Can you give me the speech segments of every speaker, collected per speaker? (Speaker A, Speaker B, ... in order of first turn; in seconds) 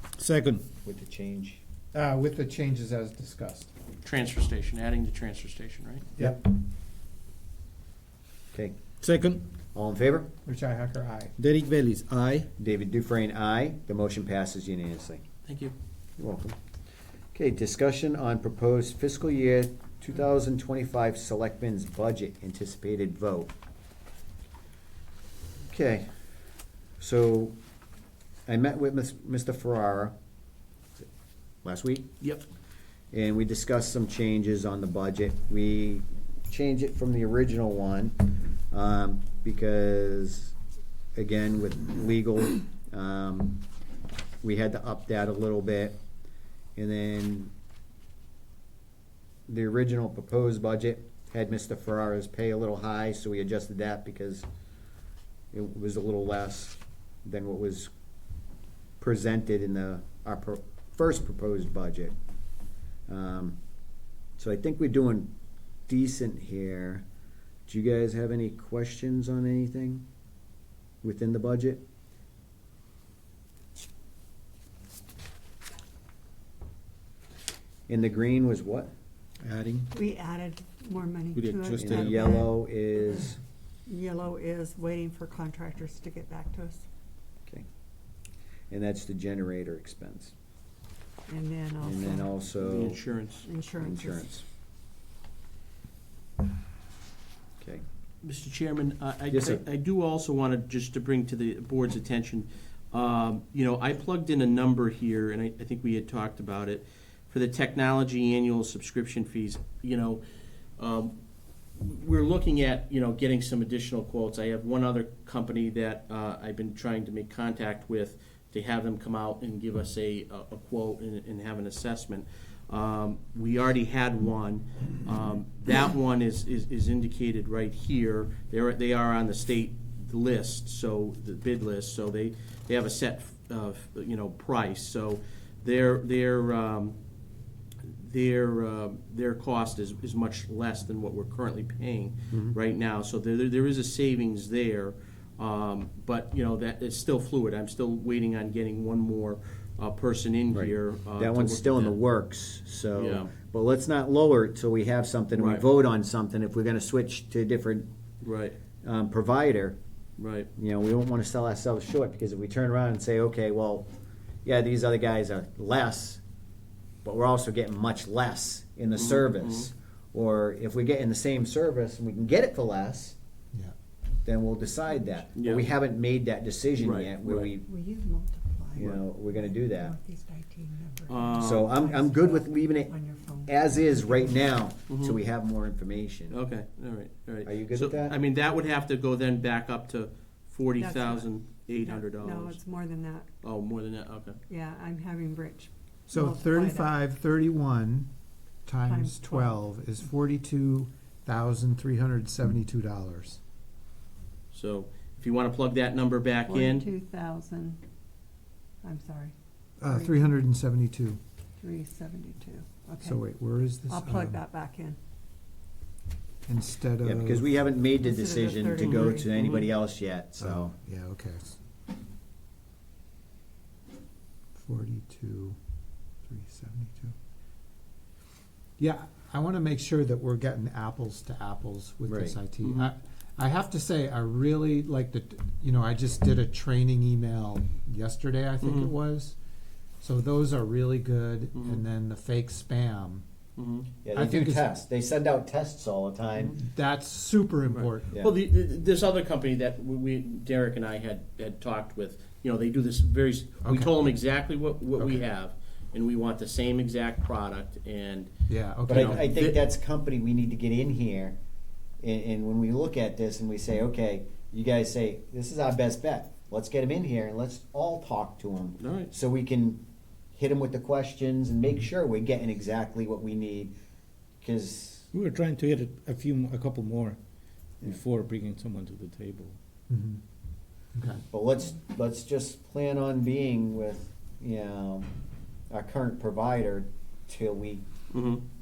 Speaker A: 0.2-0.6, 9.0-9.4, 11.4-12.5, 79.4-79.9, 81.3-82.3, 275.1-277.2, 277.8-279.6
Speaker B: 0.8-1.6, 9.7-10.3, 12.6-15.2, 16.2-16.6, 17.3-23.5, 25.7-26.1, 27.0-27.5, 28.5-30.1, 31.6-32.1, 33.1-40.5, 41.1-43.6, 44.4-46.0, 46.8-47.5, 49.5-54.5, 55.5-57.9, 59.0-62.1, 63.1-63.6, 64.4-65.3, 65.9-67.0, 67.7-70.0, 71.0-71.8, 77.9-78.9, 81.8-83.4, 88.7-90.3, 91.8-93.0, 93.8-94.4, 99.3-99.6, 142.3-142.6, 150.5-157.9, 158.8-159.8, 160.6-163.9, 164.4-166.2, 167.0-173.2, 174.2-177.6, 178.8-179.9, 181.4-182.9, 183.4-186.4, 187.4-188.2, 217.0-220.7, 232.1-232.4, 244.0-246.6, 258.9-261.4, 262.0-269.8, 270.3-273.7, 274.4-275.1, 281.3-285.1, 285.7-287.8
Speaker C: 1.9-3.7, 6.2-6.5, 10.4-11.3, 196.1-198.1, 198.7-203.4, 209.8-211.2, 213.0-214.4, 216.4-217.5, 220.4-221.6, 224.5-225.6, 226.2-227.1, 228.8-239.4, 240.0-243.2, 244.1-244.7, 246.4-248.1, 253.6-253.9, 255.0-255.2, 258.5-259.3, 279.9-280.2, 280.9-281.2
Speaker D: 4.0-6.0, 15.4-15.7, 92.6-93.5, 98.2-110.2, 110.8-111.1, 111.8-137.0, 137.8-152.0, 152.9-153.3, 155.3-155.6, 158.2-158.6, 160.2-160.5, 168.9-169.7, 175.3-175.6, 176.8-177.5, 181.1-181.7, 184.9-185.2, 186.3-192.6, 193.4-194.4, 204.5-206.9, 232.6-232.9, 238.6-238.9, 241.5-241.8, 243.6-243.9, 247.7-258.3, 258.9-259.6, 268.8-269.1, 288.1-288.4
Speaker E: 79.9-83.2, 83.9-86.8, 91.3-92.4, 93.4-94.3, 177.6-184.3, 190.8-193.3, 194.5-196.9, 198.8-199.6, 206.5-207.8, 208.8-210.3, 211.6-213.2, 213.9-215.0, 218.0-219.7